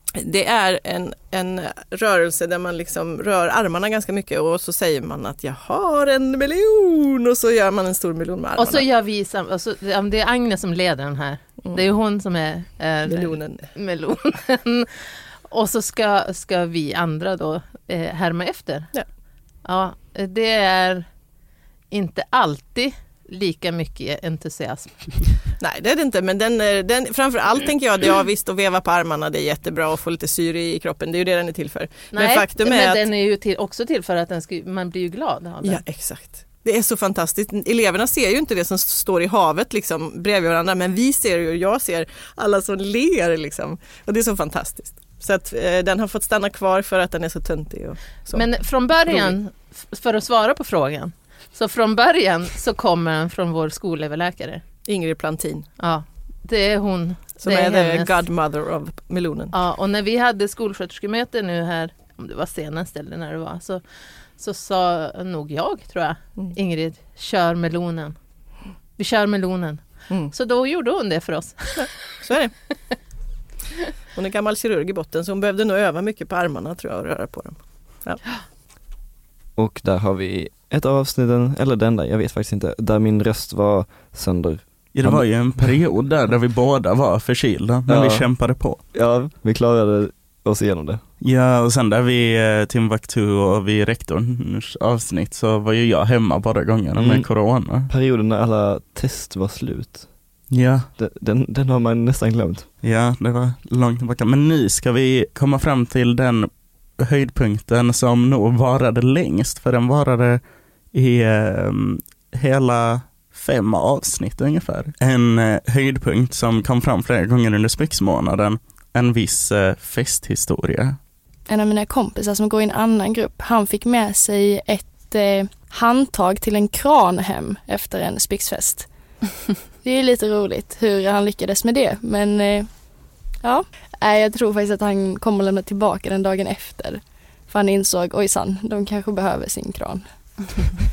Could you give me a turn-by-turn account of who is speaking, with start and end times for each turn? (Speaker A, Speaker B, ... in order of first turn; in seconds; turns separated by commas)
Speaker A: 0.2-8.8, Speaker B: 8.6-18.9, Speaker A: 13.1-13.7, Speaker B: 19.6-21.1, Speaker B: 21.9-25.4, Speaker A: 25.6-33.0, Speaker B: 32.1-35.8, Speaker A: 35.6-49.3, Speaker B: 48.2-54.6, Speaker A: 54.8-55.7, Speaker B: 55.8-58.2, Speaker A: 57.4-59.5, Speaker B: 59.5-68.2, Speaker B: 69.0-72.2, Speaker A: 70.1-70.3, Speaker A: 71.8-72.6, Speaker A: 74.1-78.2, Speaker C: 79.5-85.9, Speaker D: 84.9-88.8, Speaker C: 87.9-91.0, Speaker D: 91.2-97.9, Speaker C: 96.9-102.7, Speaker D: 100.5-100.9, Speaker D: 102.8-121.0, Speaker E: 121.5-129.3, Speaker E: 129.8-140.4